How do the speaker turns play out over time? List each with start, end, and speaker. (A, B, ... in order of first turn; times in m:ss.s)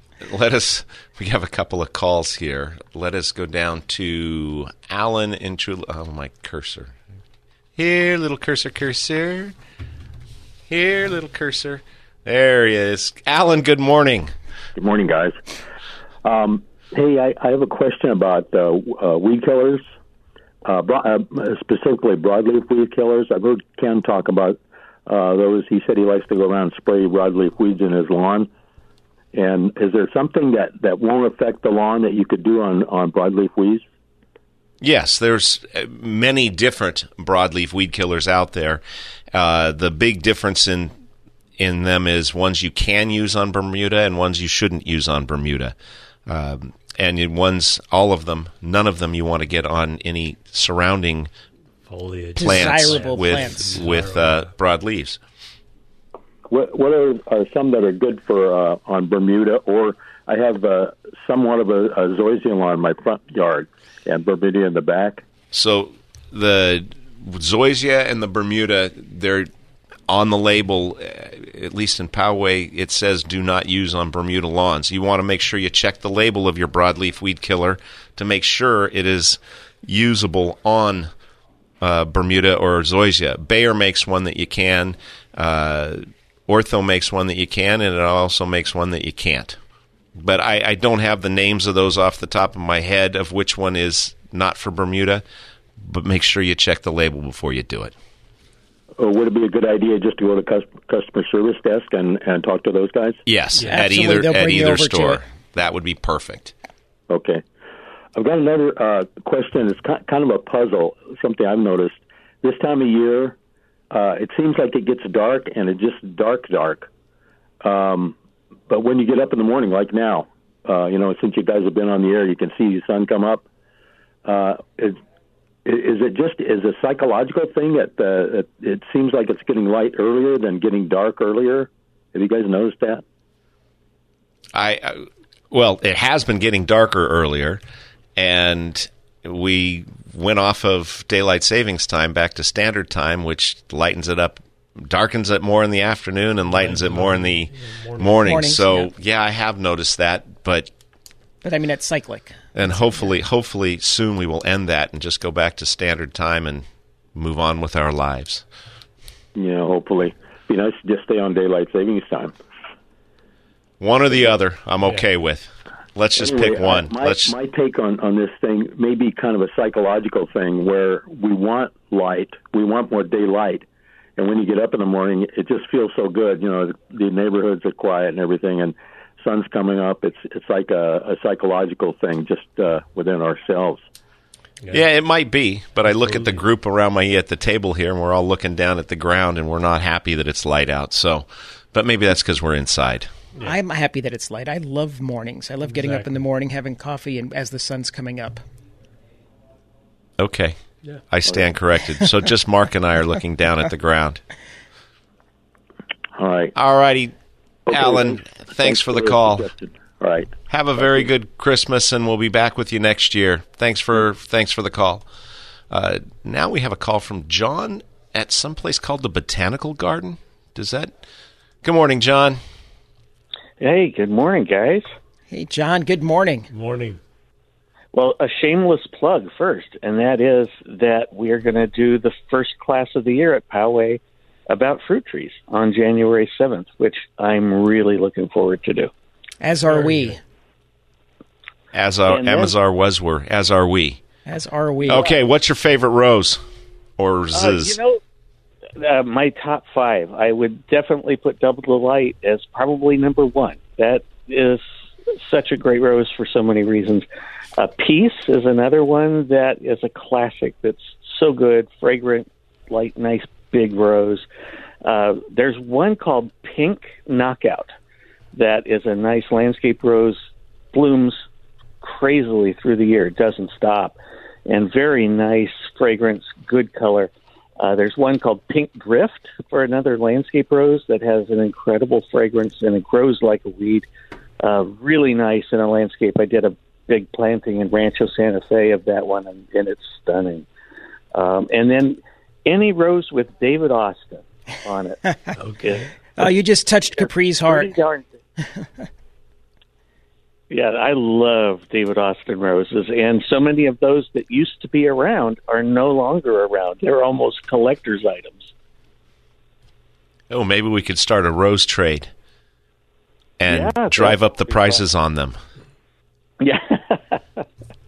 0:00.2-0:06.9 A
0:07.8-0:09.6 A
0:10.7-0:14.3 A
0:14.8-0:15.4 B
0:16.2-0:19.8 B
0:20.6-0:28.5 B
0:29.3-0:33.8 B
0:34.8-0:38.8 A
0:39.3-0:40.9 A
0:41.6-0:45.7 A
0:46.3-0:51.3 A
0:51.8-0:54.5 C
0:52.4-0:53.8 D
0:52.4-0:55.2 A
0:56.5-1:05.2 B
1:05.5-1:09.5 A
1:10.1-1:21.1 A
1:21.8-1:29.6 A
1:30.2-1:35.2 A
1:35.8-1:37.9 A
1:39.0-1:43.2 B
1:43.2-1:46.5 A
1:43.6-1:45.2 D
1:47.1-1:47.4 B
1:48.1-1:53.4 B
1:53.9-1:56.9 B
1:57.6-1:58.2 B
1:58.7-2:03.4 B
2:04.2-2:05.0 B
2:05.6-2:13.0 B
2:14.5-2:17.6 A
2:18.2-2:30.7 A
2:26.4-2:28.3 C
2:28.2-2:28.9 D
2:31.4-2:32.4 D
2:32.5-2:38.4 A
2:39.3-2:42.3 B
2:43.8-2:47.3 A
2:46.2-2:53.6 B
2:54.2-3:03.8 B
3:04.7-3:13.1 A
3:05.8-3:06.4 C
3:13.4-3:18.4 D
3:15.6-3:16.2 C
3:20.2-3:20.6 A
3:21.1-3:24.2 A
3:26.2-3:26.5 B
3:26.5-3:27.1 A
3:27.7-3:31.0 B
3:27.7-3:29.5 A
3:30.5-3:35.0 A
3:35.7-3:40.9 A
3:41.6-3:42.4 A
3:43.6-3:44.9 E
3:45.3-3:46.5 D
3:46.5-3:47.0 C
3:47.9-3:58.9 E
3:59.4-4:00.2 D
4:01.7-4:04.0 A
4:02.1-4:02.5 E
4:04.2-4:05.2 D
4:04.8-4:06.4 A
4:07.0-4:07.8 A
4:07.3-4:08.0 E
4:08.8-4:17.0 E
4:17.6-4:24.2 E
4:24.8-4:27.7 E
4:28.3-4:30.2 E
4:30.7-4:31.2 E
4:31.8-4:43.8 E
4:44.4-4:50.5 E
4:51.1-4:55.0 E
4:55.4-4:55.8 C
4:55.6-4:56.3 E
4:56.2-4:57.7 D
4:57.0-4:58.1 E
5:00.5-5:08.5 E
5:10.3-5:12.1 A
5:13.4-5:15.4 A
5:13.4-5:14.8 E
5:16.4-5:17.4 E